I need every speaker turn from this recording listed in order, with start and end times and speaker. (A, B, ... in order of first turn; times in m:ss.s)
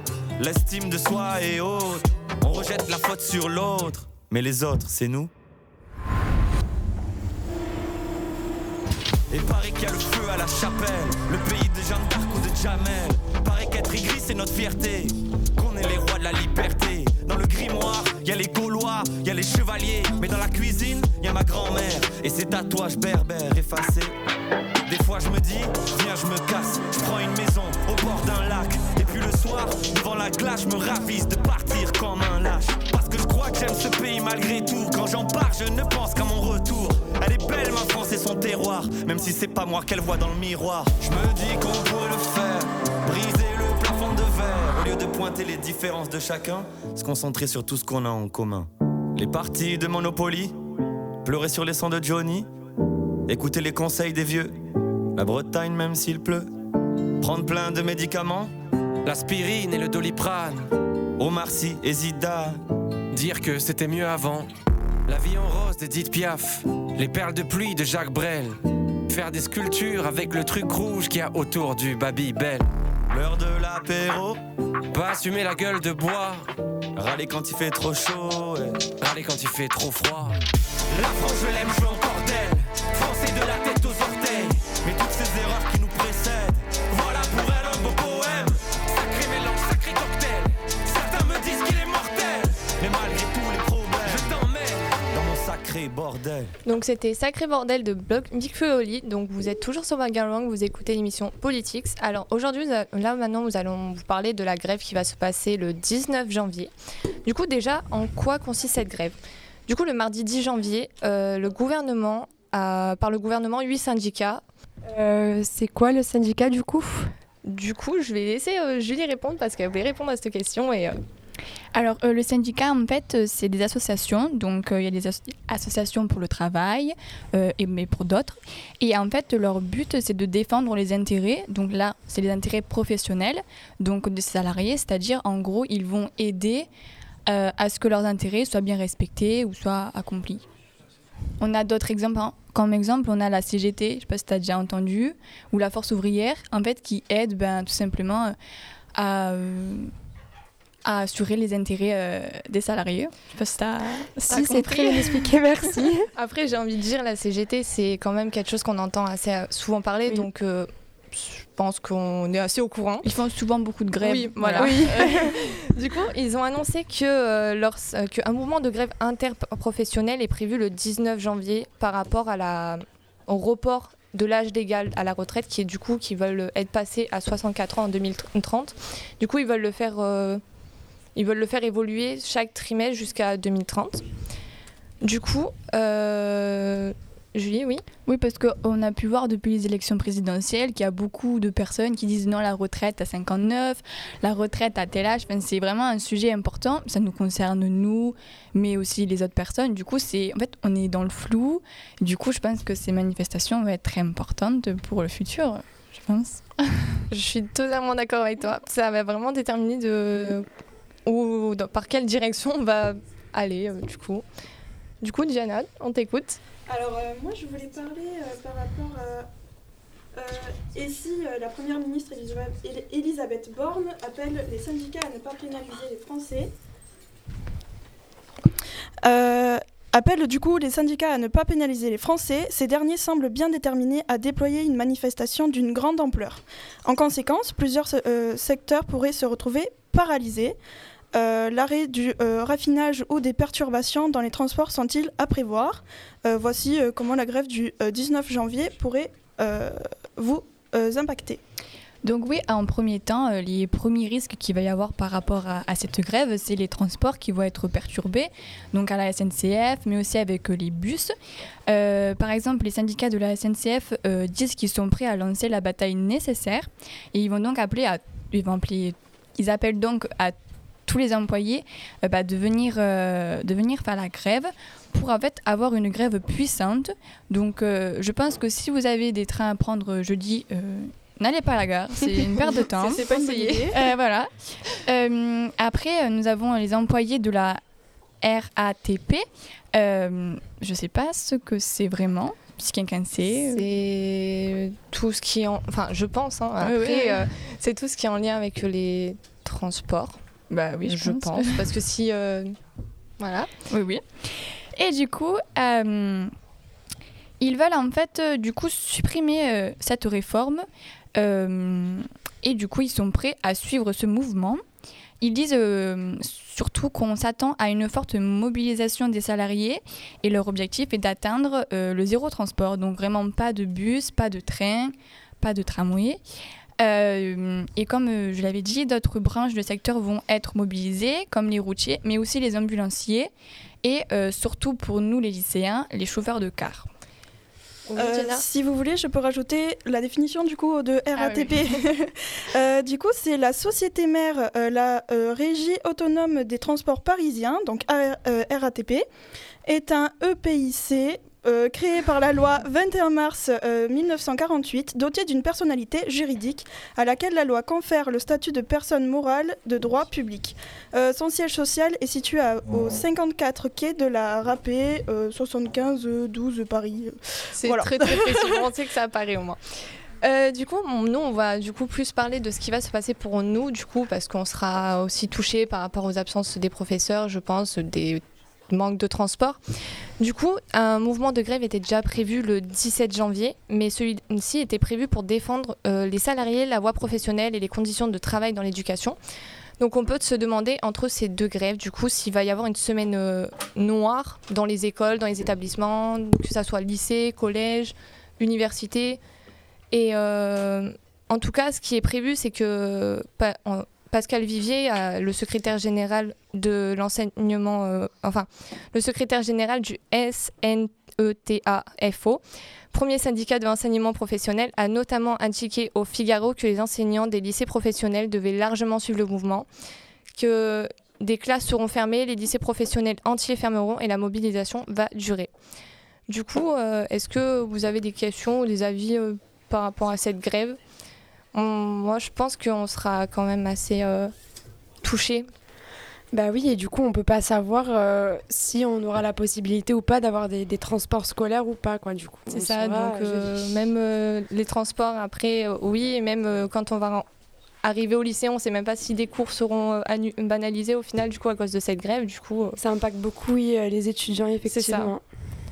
0:00.4-0:05.3 A
0:09.3-0:24.1 A
0:24.8-0:50.5 A
0:51.2-0:52.5 A
0:53.3-0:54.5 A
0:55.2-0:56.5 A
0:57.2-0:58.5 A
0:59.0-1:00.7 B
1:01.2-1:02.6 A
1:03.1-1:04.5 B
1:05.1-1:12.7 B
1:13.1-1:14.4 A
1:14.9-1:16.5 B
1:17.0-1:18.8 A
1:19.0-1:20.4 B
1:21.0-1:22.3 A
1:21.0-1:24.6 B
1:24.7-1:26.7 A
1:26.9-1:32.6 B
1:32.8-1:34.3 A
1:34.0-1:34.9 B
1:35.1-1:36.5 A
1:36.6-1:46.7 C
1:47.2-1:54.4 C
1:54.9-1:57.1 D
1:57.4-2:00.9 C
2:01.7-2:16.7 E
2:17.3-2:20.4 E
2:21.4-2:28.3 E
2:29.0-2:29.9 E
2:30.8-2:35.4 E
2:34.3-2:36.0 D
2:34.3-2:43.1 C
2:43.0-2:45.3 E
2:44.0-3:00.4 C
2:44.6-2:45.0 D
3:01.2-3:04.0 C
3:05.0-3:07.8 C
3:08.0-3:26.6 E
3:27.1-3:30.4 C
3:31.0-3:34.2 C
3:35.0-3:36.4 C
3:36.7-3:39.3 F
3:40.1-3:46.5 F
3:49.0-4:00.6 F
4:01.1-4:11.4 F
4:12.0-4:21.1 E
4:21.7-4:30.3 E
4:30.8-4:43.1 E
4:42.8-4:43.7 C
4:42.9-4:43.8 F
4:43.6-4:44.3 E
4:44.8-4:47.6 E
4:48.2-4:53.6 E
4:53.4-5:00.2 C
4:56.6-4:57.2 E
5:00.5-5:01.6 E
5:00.9-5:02.5 C
5:03.2-5:03.5 C
5:03.7-5:04.0 E
5:04.7-5:06.3 E
5:07.4-5:10.6 E
5:11.2-5:14.6 E
5:15.2-5:26.2 E
5:26.8-5:33.3 E
5:33.8-5:36.9 E
5:37.9-5:38.4 C
5:38.0-5:49.0 F
5:49.6-6:08.6 F
6:07.6-6:09.6 C
6:10.2-6:19.6 C
6:20.2-6:29.2 C
6:29.8-6:39.2 C
6:39.9-6:52.4 C
6:52.9-6:59.7 C
7:00.3-7:05.5 C
7:06.3-7:10.8 C
7:11.5-7:14.3 C
7:15.0-7:15.5 C
7:16.3-7:23.6 D
7:22.5-7:27.2 C
7:27.8-7:32.8 C
7:32.8-7:35.2 D
7:34.7-7:35.2 C